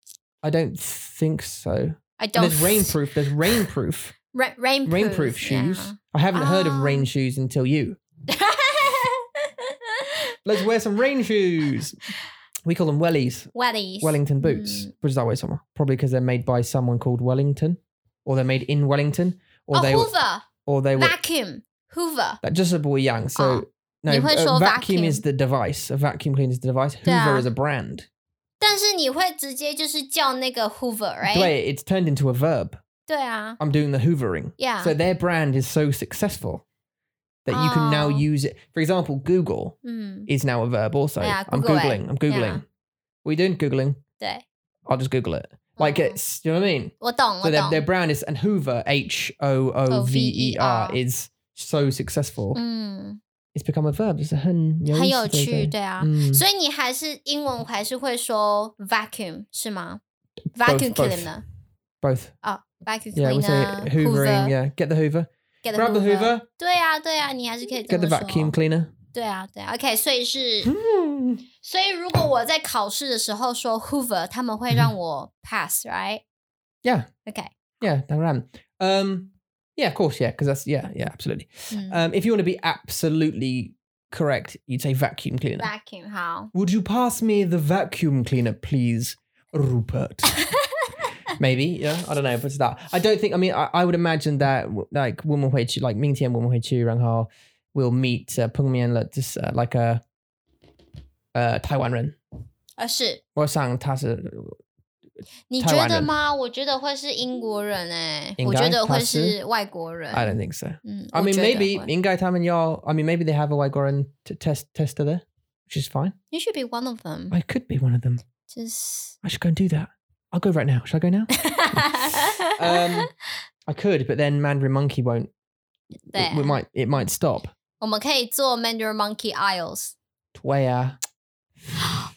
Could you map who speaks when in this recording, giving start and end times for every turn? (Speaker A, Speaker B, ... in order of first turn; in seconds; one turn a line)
Speaker A: 0.4-4.1
Speaker B: 2.2-3.0
Speaker B: 4.3-7.1
Speaker A: 4.8-8.0
Speaker B: 8.3-10.3
Speaker A: 10.4-12.0
Speaker A: 12.6-20.1
Speaker B: 13.5-14.9
Speaker B: 19.7-22.4
Speaker A: 20.6-21.1
Speaker A: 22.4-28.1
Speaker B: 23.4-25.2
Speaker B: 27.0-27.5
Speaker B: 28.6-31.5
Speaker A: 31.2-32.8
Speaker B: 33.1-33.6
Speaker A: 33.6-36.6
Speaker B: 34.6-34.9
Speaker A: 37.4-39.8
Speaker B: 37.5-38.2
Speaker B: 39.8-40.3
Speaker A: 40.3-42.6
Speaker B: 41.2-42.6
Speaker A: 43.2-44.0
Speaker B: 44.2-44.4
Speaker A: 44.9-52.6
Speaker B: 45.8-46.2
Speaker B: 47.0-47.8
Speaker B: 49.9-51.0
Speaker B: 52.5-53.2
Speaker A: 53.5-56.4
Speaker B: 54.9-60.0
Speaker B: 60.5-61.4
Speaker A: 60.6-61.3
Speaker A: 62.0-62.3
Speaker B: 62.4-64.5
Speaker A: 63.1-66.5
Speaker B: 65.6-68.5
Speaker A: 67.9-68.9
Speaker B: 69.1-70.7
Speaker A: 70.6-71.4
Speaker B: 71.6-76.2
Speaker B: 77.2-77.5
Speaker A: 77.8-85.7
Speaker B: 81.7-82.0
Speaker B: 85.6-86.5
Speaker A: 86.5-90.3
Speaker A: 91.4-100.0
Speaker A: 101.3-102.2
Speaker B: 102.8-103.2
Speaker A: 103.3-104.6
Speaker B: 105.5-111.9
Speaker A: 105.6-106.1
Speaker A: 108.4-109.3
Speaker A: 110.1-116.1
Speaker B: 116.3-117.4
Speaker A: 117.3-118.2
Speaker B: 118.5-119.2
Speaker A: 119.2-121.8
Speaker B: 121.3-123.1
Speaker A: 122.4-123.1
Speaker A: 123.7-125.3
Speaker B: 126.1-126.6
Speaker A: 126.1-127.5
Speaker B: 127.8-129.9
Speaker A: 130.3-131.0